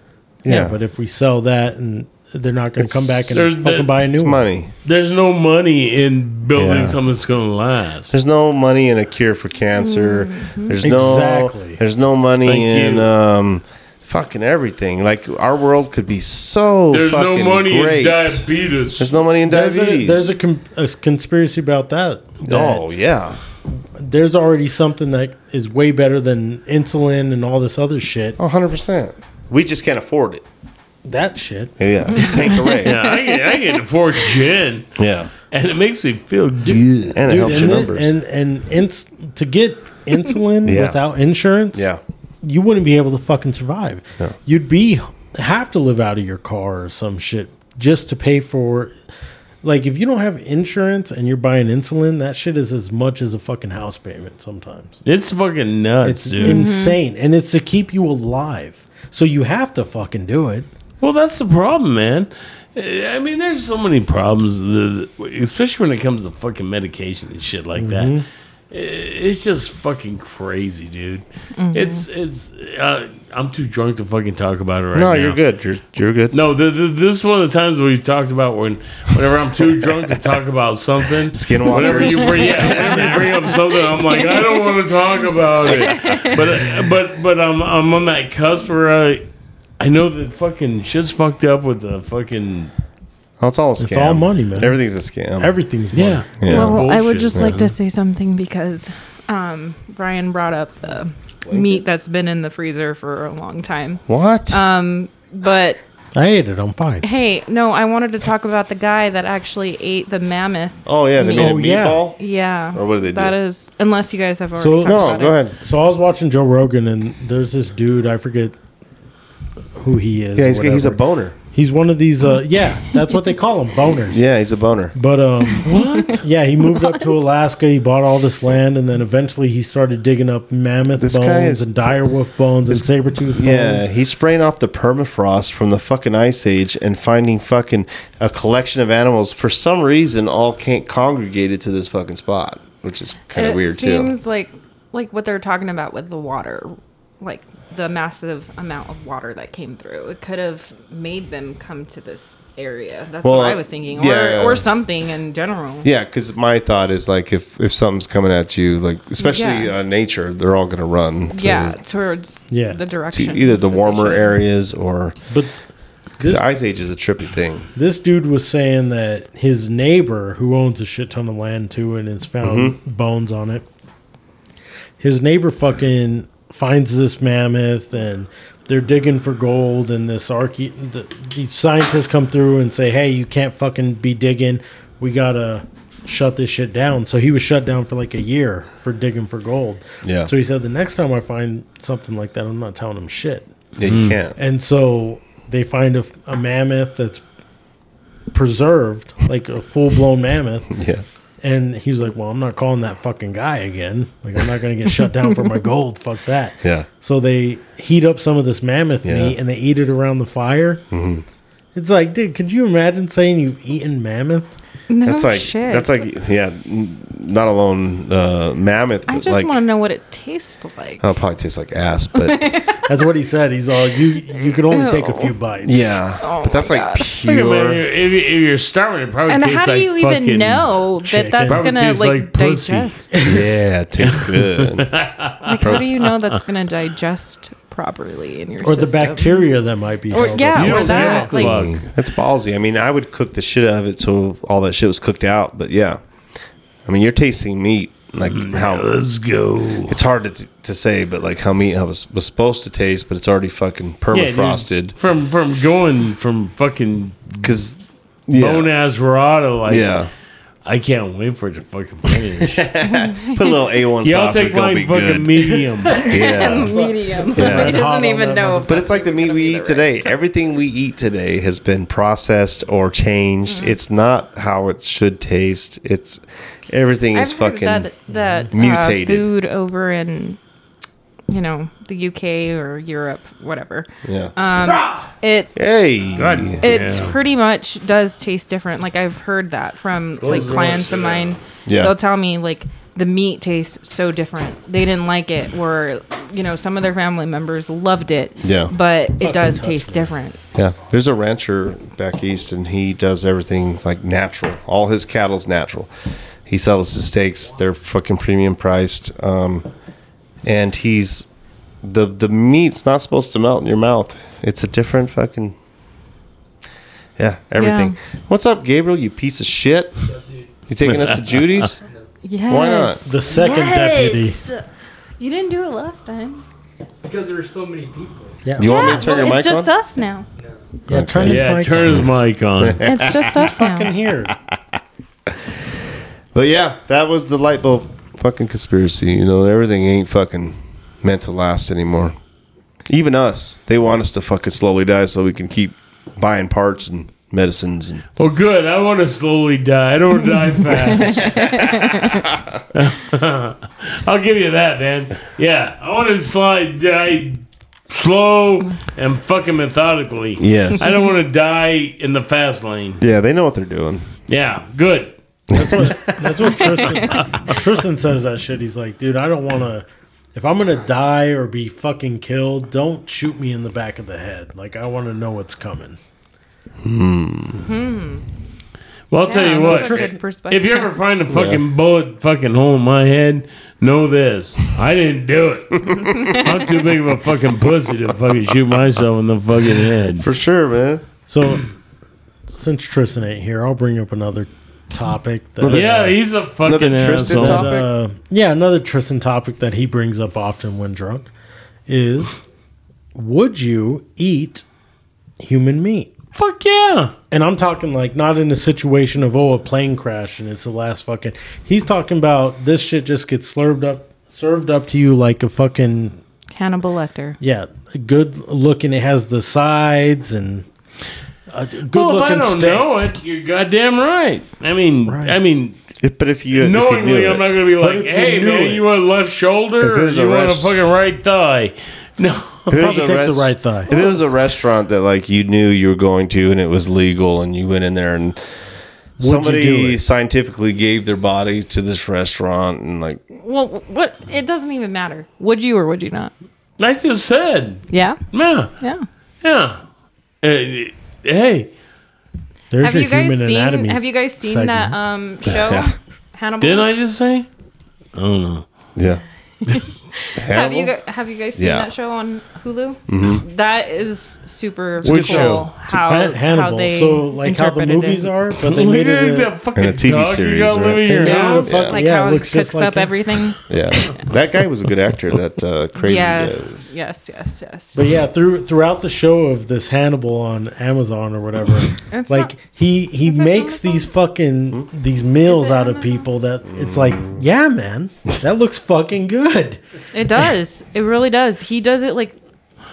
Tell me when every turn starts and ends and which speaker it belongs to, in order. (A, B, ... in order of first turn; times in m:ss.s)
0:00.4-0:00.8 A
0:00.4-0:04.4 B
0:02.8-0:03.4 A
0:03.3-0:04.0 C
0:04.2-0:04.7 A
0:04.8-0:08.2 C
0:06.6-0:07.0 A
0:08.1-0:20.3 A
0:09.8-0:10.8 D
0:10.8-0:11.8 B
0:12.4-0:13.1 C
0:16.9-0:19.2 C
0:19.4-0:22.9 B
0:22.4-0:23.4 A
0:23.9-0:28.4 B
0:28.4-0:30.4 A
0:31.0-0:31.8 B
0:31.8-0:33.0 A
0:32.7-0:33.3 D
0:32.8-0:34.9 C
0:35.0-0:35.3 A
0:35.4-0:36.8 C
0:36.6-0:38.1 A
0:36.7-0:41.9 B
0:40.6-0:41.0 A
0:41.7-0:42.0 A
0:42.4-0:49.0 B
0:49.6-0:55.0 B
0:55.0-0:56.7 C
0:56.0-1:00.7 B
0:56.4-0:57.0 D
1:01.0-1:15.4 C
1:07.8-1:08.2 B
1:11.6-1:12.0 D
1:14.9-1:16.4 A
1:16.3-1:29.3 C
1:21.3-1:23.4 A
1:22.4-1:22.7 D
1:24.2-1:24.6 D
1:25.7-1:26.3 D
1:29.8-1:32.7 C
1:33.4-1:35.5 A
1:33.8-1:34.8 B
1:35.4-1:36.3 B
1:35.9-1:37.7 C
1:36.4-1:37.5 A
1:36.4-1:45.8 D
1:41.5-1:41.8 A
1:44.1-1:44.6 A
1:46.2-1:47.0 B
1:47.0-1:55.4 D
1:50.9-1:52.2 A
1:51.2-1:52.0 B
1:52.7-1:53.4 A
1:54.6-1:58.6 B
1:54.8-1:55.6 A
1:59.8-2:04.2 B
2:00.4-2:01.4 A
2:04.1-2:04.9 A
2:05.0-2:13.9 B
2:05.6-2:06.2 C
2:05.8-2:06.2 D
2:06.8-2:07.2 D
2:11.0-2:11.9 A
2:12.7-2:24.1 A
2:23.3-2:35.9 D
2:33.2-2:34.6 A
2:35.8-2:41.8 A
2:39.2-2:39.7 D
2:41.3-2:44.4 D
2:42.5-2:42.8 B
2:43.1-2:45.2 A
2:46.2-2:46.4 B
2:46.2-2:47.7 A
2:47.8-2:53.7 B
2:52.4-2:52.8 A
2:55.0-3:13.5 B
3:10.0-3:10.3 A
3:13.8-3:14.4 A
3:13.8-3:14.2 C
3:14.4-3:17.2 B
3:18.3-3:20.7 B
3:20.7-3:21.0 A
3:21.4-3:30.8 B
3:29.0-3:29.3 A
3:30.9-3:31.2 A
3:31.7-3:34.5 B
3:34.9-3:36.1 D
3:35.0-3:39.6 A
3:39.1-3:41.1 D
3:41.0-3:42.6 A
3:42.2-3:42.8 D
3:42.9-3:46.0 B
3:44.3-3:45.4 D
3:45.6-3:47.8 A
3:46.2-3:47.1 D
3:47.2-3:50.7 C
3:49.3-3:53.1 D
3:51.0-3:51.7 B
3:51.4-3:53.0 C
3:53.1-3:53.4 B
3:53.2-3:54.9 A
3:54.0-3:56.0 C
3:55.4-3:59.5 D
3:58.6-4:01.5 B
4:00.1-4:01.6 D
4:00.6-4:01.9 C
4:00.8-4:06.0 A
4:06.9-4:08.9 A
4:08.3-4:10.0 C
4:09.9-4:15.0 A
4:14.1-4:17.5 C
4:17.4-4:18.7 A
4:18.4-4:20.0 C
4:19.7-4:20.1 A
4:20.6-4:22.7 C
4:22.4-4:26.8 A
4:22.8-4:23.6 D
4:24.0-4:26.1 C
4:25.9-4:30.2 D
4:26.1-4:28.9 B
4:27.3-4:27.8 A
4:28.7-4:37.9 A
4:33.5-4:33.8 D
4:37.1-4:40.4 D
4:38.1-4:38.5 B
4:38.5-4:39.3 A
4:41.3-4:45.5 D
4:44.0-4:44.3 A
4:45.6-4:46.6 A
4:46.2-4:47.2 C
4:46.6-5:00.4 D
4:50.2-4:51.4 C
4:51.7-4:52.0 A
4:58.4-4:58.7 A
4:59.2-5:00.1 B
5:00.6-5:05.9 A
5:06.5-5:09.7 A
5:10.4-5:11.3 A
5:11.8-5:15.6 A
5:17.2-5:20.0 A
5:17.6-5:18.0 D
5:20.1-5:20.5 E
5:20.7-5:21.8 A
5:20.8-5:21.7 C
5:22.2-5:24.6 D
5:22.5-5:23.2 A
5:23.0-5:24.4 B
5:25.2-5:26.4 D
5:27.0-5:28.5 E
5:28.4-5:29.0 B
5:28.6-5:29.7 A
5:28.6-5:30.3 D
5:30.4-5:30.8 E
5:30.9-5:32.1 B
5:30.9-5:33.5 A
5:31.2-5:32.8 C
5:32.8-5:33.9 D
5:33.3-5:34.4 B
5:36.3-5:42.2 A
5:42.9-5:48.0 A
5:48.2-5:52.2 C
5:50.7-5:52.0 D
5:52.7-6:03.0 C
6:00.4-6:01.0 A
6:03.0-6:04.1 A
6:04.2-6:05.2 C
6:05.5-6:06.6 A
6:05.5-6:16.0 B
6:06.6-6:07.3 D
6:07.0-6:07.6 C
6:16.8-6:17.7 A
6:17.6-6:18.2 D
6:19.1-6:30.2 C
6:19.2-6:21.0 D
6:19.5-6:20.2 B
6:21.3-6:21.6 B
6:21.3-6:21.6 A
6:26.0-6:26.6 D
6:30.2-6:31.0 A
6:31.3-6:31.7 B
6:32.5-6:36.2 B
6:35.6-6:37.9 A
6:35.7-6:37.7 C
6:37.1-6:41.3 B
6:41.9-6:42.4 B
6:43.1-6:44.6 B
6:45.4-6:46.1 B
6:46.4-6:47.1 C
6:47.3-6:56.2 B
6:56.5-6:57.4 D
6:57.4-7:00.7 B
7:01.5-7:03.1 B
7:01.9-7:05.8 C
7:05.0-7:05.4 B
7:06.0-7:07.5 A
7:06.5-7:12.7 C
7:07.8-7:08.9 B
7:09.8-7:10.8 A
7:12.7-7:14.0 B
7:12.7-7:18.4 A
7:19.2-7:20.0 B
7:19.2-7:23.2 A
7:23.3-7:26.3 D
7:26.8-7:28.7 C
7:27.9-7:28.2 D
7:28.8-7:29.0 D
7:29.4-7:29.8 C
7:30.4-7:31.7 C
7:32.7-7:35.0 B
7:32.8-7:36.9 D
7:35.4-7:35.9 A
7:36.6-7:37.5 C
7:38.2-7:38.7 C
7:39.0-7:39.2 A
7:39.6-7:48.3 D
7:40.4-7:40.9 A
7:41.6-7:41.9 A
7:43.1-7:43.4 A
7:45.0-7:45.7 C
7:45.1-7:49.5 B
7:48.6-7:51.8 C
7:49.8-7:52.0 A
7:51.0-7:53.4 B
7:51.2-7:54.2 D
7:53.7-7:56.9 A
7:56.0-7:58.0 D
7:58.0-8:09.8 B
8:02.1-8:02.6 D
8:03.2-8:04.1 D
8:05.4-8:06.3 D
8:06.7-8:07.4 A
8:10.1-8:12.4 D